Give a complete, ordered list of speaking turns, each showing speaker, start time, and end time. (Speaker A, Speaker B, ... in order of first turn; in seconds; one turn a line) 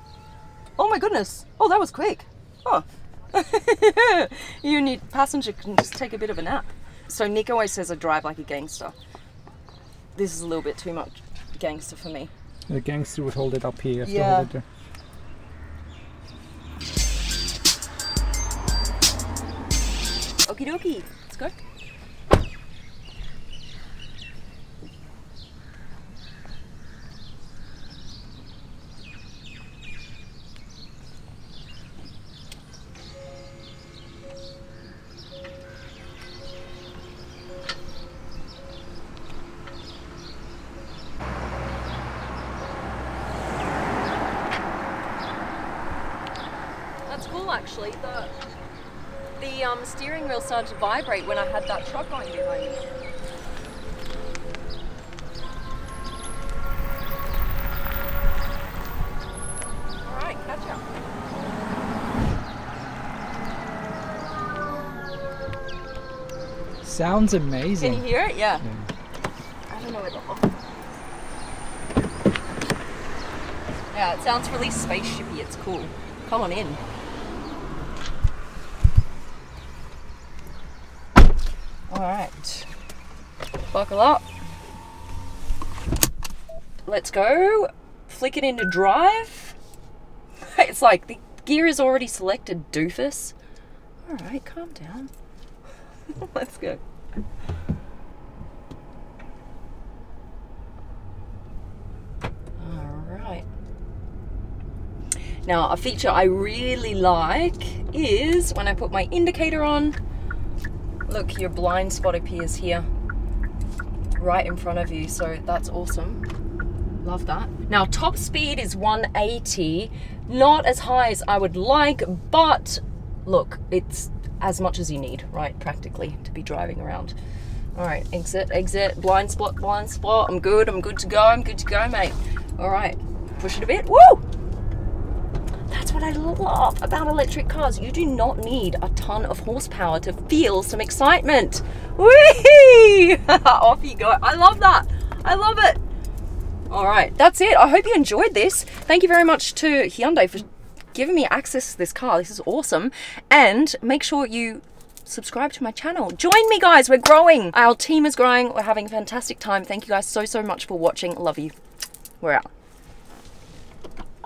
Speaker A: 0.8-8.9
Speaker A: 10.1-12.3
Speaker B: 12.7-14.6
Speaker A: 14.0-14.5
Speaker A: 20.4-21.5
Speaker A: 47.1-48.3
Speaker A: 49.4-52.9
Speaker A: 60.0-60.8
Speaker B: 66.8-68.0
Speaker A: 67.8-68.6
Speaker B: 68.6-68.9
Speaker A: 69.7-70.6
Speaker A: 73.9-76.8
Speaker A: 81.9-82.7
Speaker A: 83.7-84.2
Speaker A: 86.8-89.5
Speaker A: 90.4-93.3
Speaker A: 94.0-95.1
Speaker A: 96.1-96.8
Speaker A: 102.6-103.5
Speaker A: 105.4-110.0
Speaker A: 111.1-112.9
Speaker A: 114.2-116.2
Speaker A: 117.0-127.2
Speaker A: 127.7-134.2
Speaker A: 135.7-145.8
Speaker A: 146.7-161.5
Speaker A: 162.2-162.5